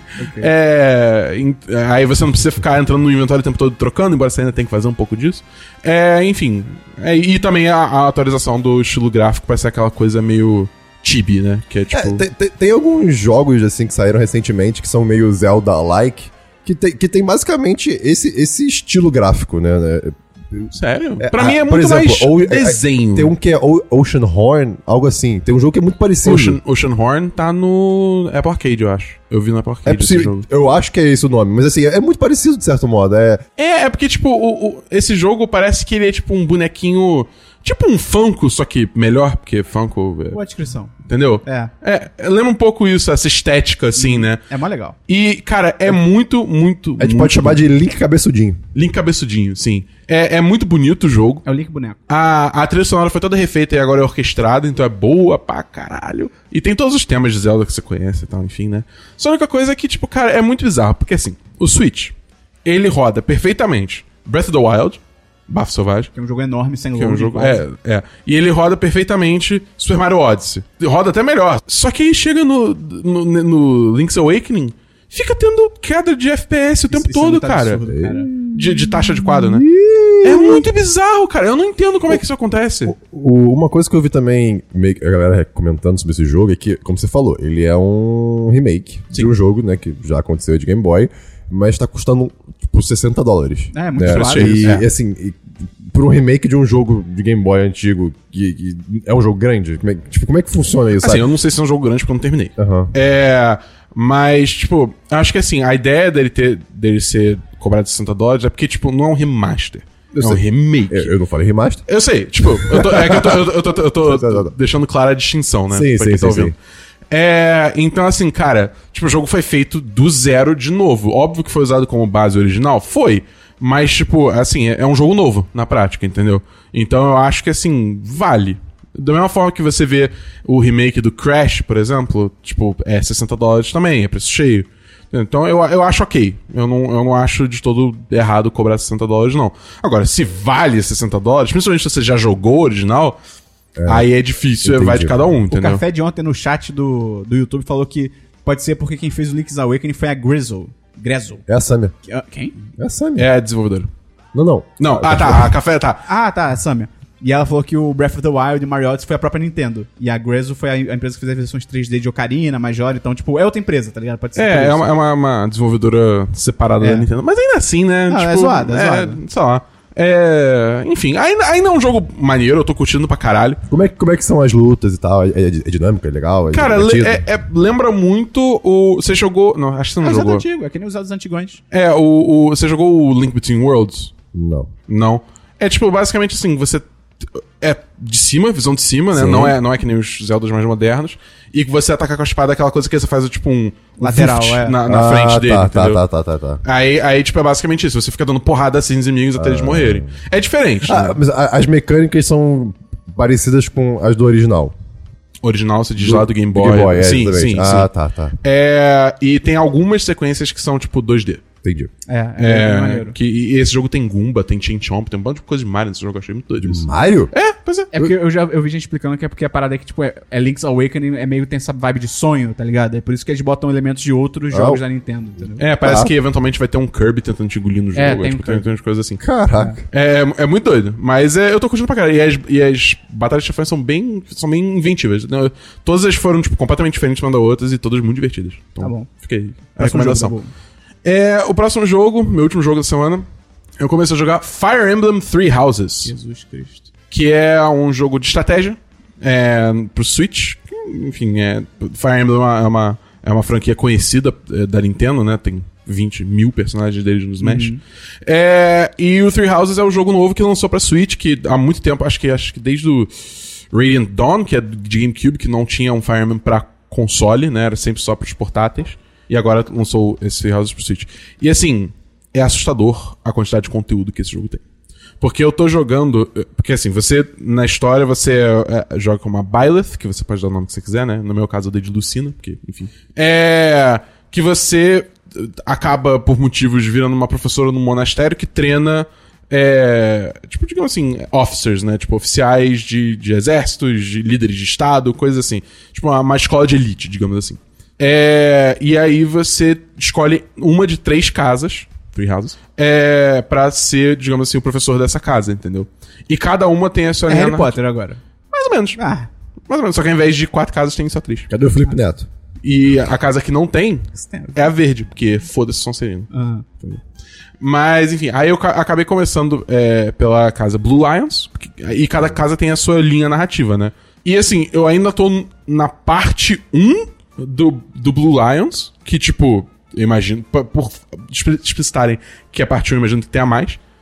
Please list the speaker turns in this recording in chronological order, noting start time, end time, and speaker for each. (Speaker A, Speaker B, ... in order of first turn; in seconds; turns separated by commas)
Speaker A: 0.1-0.5, Speaker B: 0.3-12.2, Speaker C: 11.9-26.6, Speaker B: 20.8-23.3, Speaker B: 26.2-30.4, Speaker C: 29.9-33.4, Speaker B: 33.6-40.4, Speaker A: 40.3-40.9, Speaker B: 41.0-44.4, Speaker A: 41.5-41.7, Speaker A: 44.0-45.0, Speaker B: 45.1-47.6, Speaker C: 47.0-48.6, Speaker B: 48.7-51.5, Speaker A: 51.5-52.0, Speaker B: 52.1-62.1, Speaker B: 62.6-66.1, Speaker A: 66.2-67.6, Speaker B: 67.0-77.8, Speaker A: 76.9-78.3, Speaker C: 77.9-80.7, Speaker B: 78.4-79.7, Speaker B: 80.2-83.0, Speaker C: 82.8-101.3, Speaker A: 93.7-94.8, Speaker B: 94.0-94.9, Speaker B: 101.0-111.1, Speaker C: 102.6-102.9, Speaker C: 110.1-111.8, Speaker B: 111.9-116.5, Speaker C: 112.4-113.5, Speaker C: 114.0-114.5, Speaker C: 115.7-116.5, Speaker B: 117.1-143.2, Speaker C: 143.8-144.1, Speaker B: 143.9-145.8, Speaker C: 144.6-145.2, Speaker A: 145.5-151.4, Speaker C: 151.5-151.9, Speaker A: 152.1-152.6, Speaker C: 152.8-153.3, Speaker B: 153.2-153.9, Speaker C: 154.3-155.5, Speaker B: 154.8-156.1, Speaker A: 156.1-164.9, Speaker B: 164.4-173.6, Speaker A: 166.8-167.1, Speaker A: 168.1-169.2, Speaker C: 173.7-177.2, Speaker B: 176.5-180.4, Speaker A: 180.0-181.6, Speaker B: 181.7-184.1, Speaker C: 184.3-184.7, Speaker B: 184.9-196.0, Speaker C: 189.1-189.6, Speaker A: 194.0-194.8, Speaker C: 194.9-196.6, Speaker B: 196.6-201.2, Speaker C: 199.4-200.1, Speaker C: 200.8-204.8, Speaker B: 205.4-207.9, Speaker C: 206.0-208.4, Speaker B: 208.4-211.4, Speaker C: 211.6-211.9, Speaker A: 212.1-213.2, Speaker B: 212.4-217.9, Speaker C: 216.6-217.3, Speaker A: 217.9-225.7, Speaker C: 224.5-224.8, Speaker B: 225.6-229.2, Speaker C: 225.8-226.1, Speaker A: 228.0-228.7, Speaker C: 229.2-229.8, Speaker B: 229.9-240.4, Speaker A: 238.8-239.1, Speaker A: 239.8-240.5, Speaker B: 241.0-243.2, Speaker B: 243.8-246.1, Speaker A: 246.0-246.9, Speaker B: 247.1-263.1, Speaker A: 257.4-257.8, Speaker B: 263.7-274.6, Speaker B: 275.2-307.8, Speaker A: 307.3-308.2, Speaker B: 308.5-309.0, Speaker A: 309.0-309.3, Speaker B: 309.7-311.5, Speaker C: 311.5-312.3, Speaker B: 312.6-316.3, Speaker A: 314.1-314.7, Speaker A: 316.3-316.7, Speaker B: 317.6-333.8